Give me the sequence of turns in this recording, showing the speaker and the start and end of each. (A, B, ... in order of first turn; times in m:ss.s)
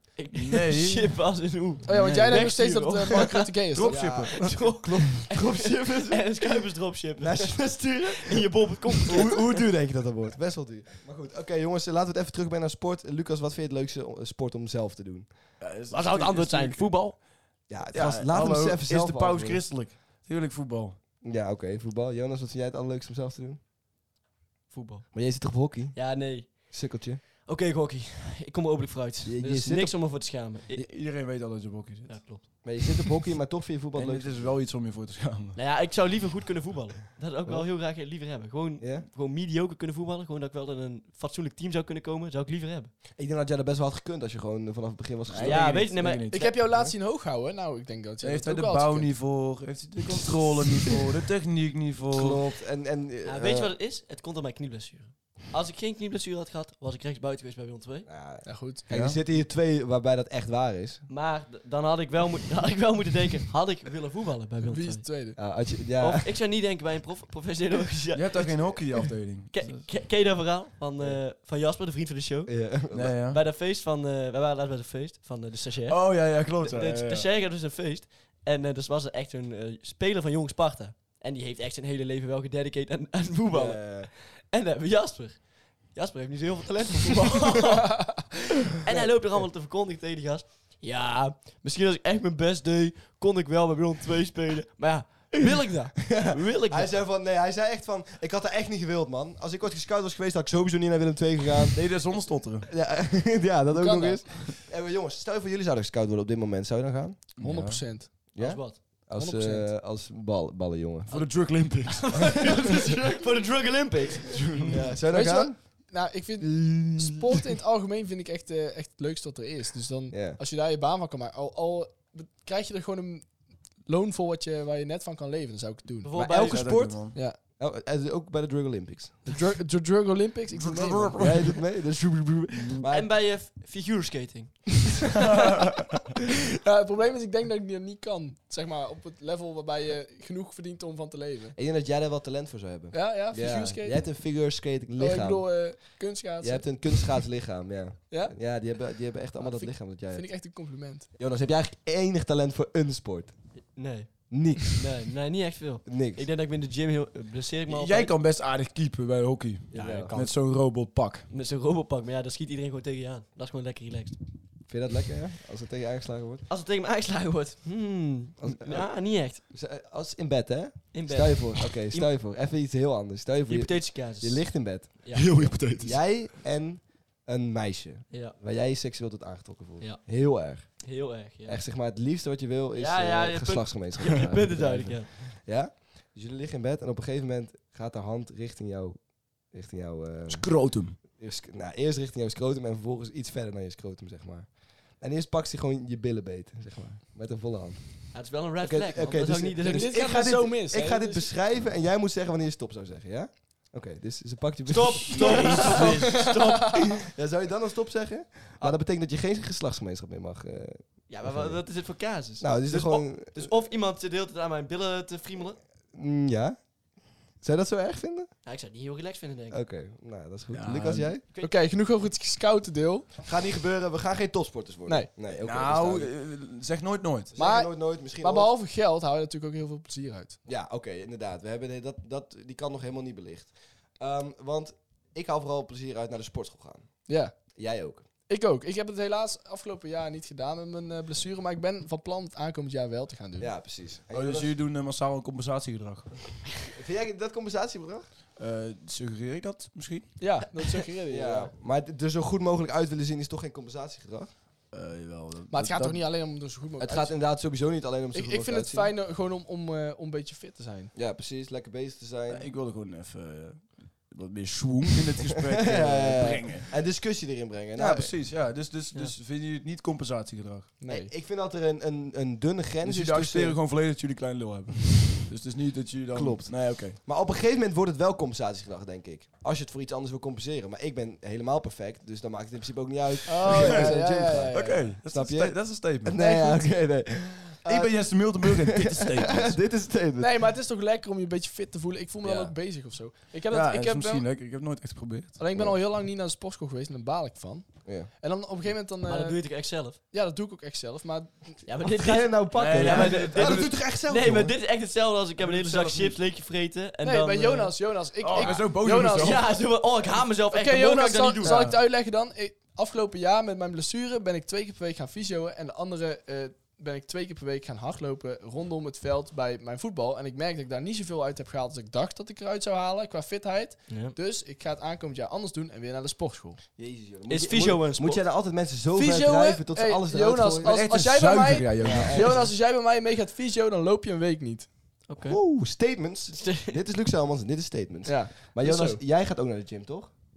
0:00.2-0:03.5 A
0:00.3-0:01.1 B
0:01.9-0:04.0 C
0:01.9-0:02.4 B
0:03.7-0:04.9 B
0:03.8-0:06.4 D
0:04.2-0:09.4 A
0:07.2-0:08.5 D
0:09.1-0:15.3 D
0:15.6-0:17.3 B
0:15.9-0:17.2 A
0:17.7-0:19.7 D
0:17.9-0:21.0 B
0:21.2-0:23.6 D
0:24.7-0:25.2 A
0:25.1-0:27.2 D
0:25.9-0:26.8 A
0:27.4-0:30.9 A
0:29.2-0:30.4 D
0:30.8-0:32.4 B
0:32.1-0:32.8 A
0:32.6-0:34.6 D
0:34.0-0:35.6 B
0:35.6-0:42.9 A
0:38.8-0:39.1 D
0:43.2-0:45.9 D
0:45.3-0:46.4 B
0:45.4-0:46.6 A
0:46.3-0:49.2 C
0:48.2-0:52.4 B
0:52.1-0:53.7 D
0:53.2-0:58.1 A
0:58.1-1:01.0 D
0:58.4-0:58.9 C
0:58.9-0:59.2 B
1:01.1-1:05.3 A
1:04.7-1:05.4 C
1:05.4-1:06.3 D
1:06.0-1:08.9 A
1:08.1-1:09.9 B
1:09.5-1:36.9 A
1:12.5-1:13.2 D
1:12.9-1:13.4 B
1:15.9-1:17.3 B
1:23.5-1:24.1 D
1:36.1-1:41.8 D
1:41.7-1:42.7 B
1:42.7-1:47.3 D
1:43.7-1:44.3 C
1:47.4-1:47.8 B
1:47.4-1:48.3 C
1:48.3-1:51.5 D
1:48.4-1:48.8 A
1:49.1-1:49.7 C
1:51.1-1:52.6 B
1:51.8-1:54.7 A
1:54.3-1:54.9 B
1:54.7-1:55.9 D
1:55.1-2:06.2 C
1:56.4-1:57.4 D
2:00.1-2:00.4 D
2:06.0-2:06.9 A
2:06.1-2:09.2 D
2:06.3-2:07.2 B
2:09.2-2:11.3 C
2:10.5-2:11.6 B
2:11.2-2:13.1 D
2:12.9-2:14.9 A
2:16.6-2:21.6 C
2:21.6-2:30.3 D
2:22.9-2:24.4 C
2:25.0-2:27.3 C
2:28.1-2:28.8 C
2:29.4-2:31.1 C
2:31.2-2:33.6 D
2:33.6-2:38.1 A
2:34.3-2:34.8 D
2:35.9-2:36.3 D
2:37.7-2:41.3 B
2:39.7-2:40.1 D
2:39.7-2:40.6 A
2:41.3-2:44.2 A
2:44.7-2:46.5 D
2:46.5-2:49.4 A
2:48.4-3:26.0 D
2:50.9-2:52.1 A
2:53.5-2:55.6 A
2:55.1-2:56.1 B
2:58.1-2:58.4 A
2:59.8-3:01.6 A
3:02.7-3:05.1 A
3:10.3-3:11.0 B
3:18.1-3:20.0 A
3:19.6-3:21.3 C
3:24.7-3:27.0 A
3:25.1-3:26.0 B
3:27.0-3:33.5 D
3:31.1-3:35.6 A
3:35.9-3:36.7 D
3:37.3-3:38.3 D
3:38.4-3:39.6 A
3:39.5-3:41.2 D
3:40.5-3:41.2 B
3:41.4-3:43.1 C
3:43.2-3:46.1 D
3:45.4-3:47.3 B
3:47.4-3:48.5 D
3:47.4-3:50.4 C
3:50.5-3:58.1 D
3:57.1-3:57.5 C
3:58.3-4:03.6 C
4:03.4-4:04.5 D
4:04.1-4:06.4 B
4:06.7-4:08.1 D
4:08.4-4:10.2 B
4:10.2-4:11.5 C
4:11.1-4:14.3 D
4:14.7-4:16.0 B
4:15.5-4:17.3 C
4:16.8-4:18.9 D
4:18.1-4:20.9 C
4:21.0-4:22.5 D
4:22.3-4:26.7 B
4:25.6-4:28.1 D
4:27.8-4:30.7 B
4:30.8-4:31.1 C
4:30.9-4:33.6 D
4:32.8-4:37.0 B
4:36.1-4:47.9 D
4:43.3-4:45.0 C
4:43.4-4:46.2 B
4:46.2-4:47.0 C
4:47.6-4:49.7 B
4:48.4-4:50.4 D
4:50.2-4:54.3 C
4:52.2-4:52.5 A
4:53.5-4:55.4 B
4:55.4-4:59.4 C
4:59.0-5:00.0 A
5:00.1-5:01.6 C
5:01.6-5:07.8 A
5:01.8-5:04.6 D
5:02.6-5:03.8 B
5:05.4-5:06.2 B
5:07.0-5:09.6 C
5:08.2-5:09.5 B
5:09.2-5:11.7 A
5:10.4-5:26.6 C
5:11.4-5:11.8 B
5:23.9-5:24.2 A
5:26.8-5:30.8 D
5:27.3-5:28.2 A
5:28.9-5:34.8 C
5:30.6-5:32.4 B
5:31.8-5:32.5 D
5:35.1-5:35.4 A
5:35.2-5:40.1 D
5:36.3-5:36.8 A
5:38.0-5:39.0 C